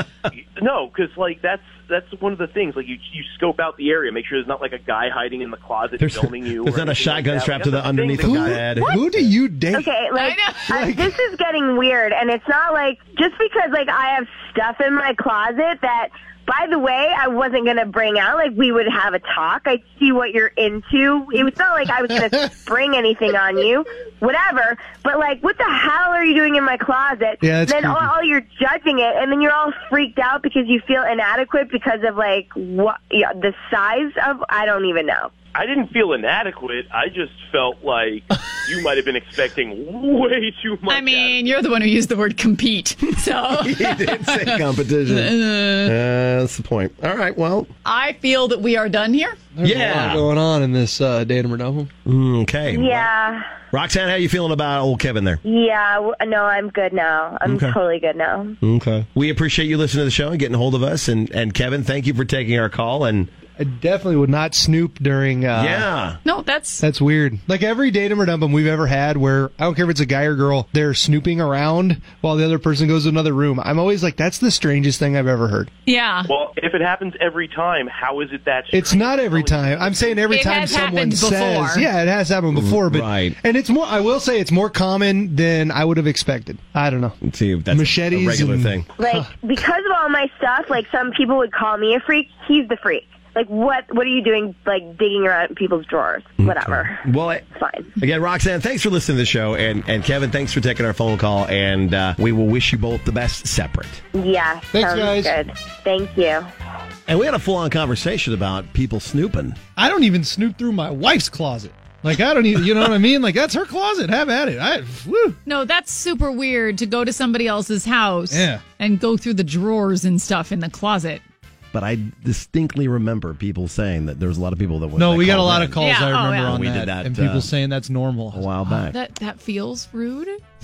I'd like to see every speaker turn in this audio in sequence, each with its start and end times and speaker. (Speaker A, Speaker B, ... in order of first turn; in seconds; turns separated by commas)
Speaker A: 0.6-8.3, Speaker B: 6.0-9.2, Speaker C: 8.2-9.9, Speaker D: 9.7-35.3, Speaker E: 10.2-10.7, Speaker C: 10.7-11.1, Speaker C: 27.4-28.1, Speaker A: 35.5-41.5, Speaker E: 40.9-46.0, Speaker B: 43.5-47.7, Speaker E: 47.9-49.4, Speaker C: 49.6-51.9, Speaker B: 49.6-50.3, Speaker B: 52.1-53.1, Speaker D: 52.7-53.5, Speaker B: 53.7-55.4, Speaker D: 55.5-58.6, Speaker B: 57.5-57.8, Speaker B: 58.6-63.3, Speaker C: 63.6-65.9, Speaker B: 65.5-66.2, Speaker E: 66.2-66.9, Speaker C: 66.8-75.7, Speaker E: 75.9-76.3, Speaker A: 76.3-80.3, Speaker C: 78.7-87.2, Speaker E: 80.3-81.9, Speaker B: 82.5-83.4, Speaker B: 87.2-88.9, Speaker C: 87.7-89.3, Speaker D: 89.0-97.0, Speaker B: 96.4-97.4, Speaker D: 97.6-97.9, Speaker B: 98.0-104.0, Speaker D: 104.2-106.5, Speaker C: 104.7-105.3, Speaker B: 107.1-109.6, Speaker C: 109.8-115.4, Speaker E: 115.5-121.2, Speaker C: 118.3-118.6, Speaker B: 121.7-125.9, Speaker C: 125.0-128.7, Speaker E: 125.8-126.6, Speaker B: 126.4-127.5, Speaker B: 128.3-129.0, Speaker E: 128.9-130.4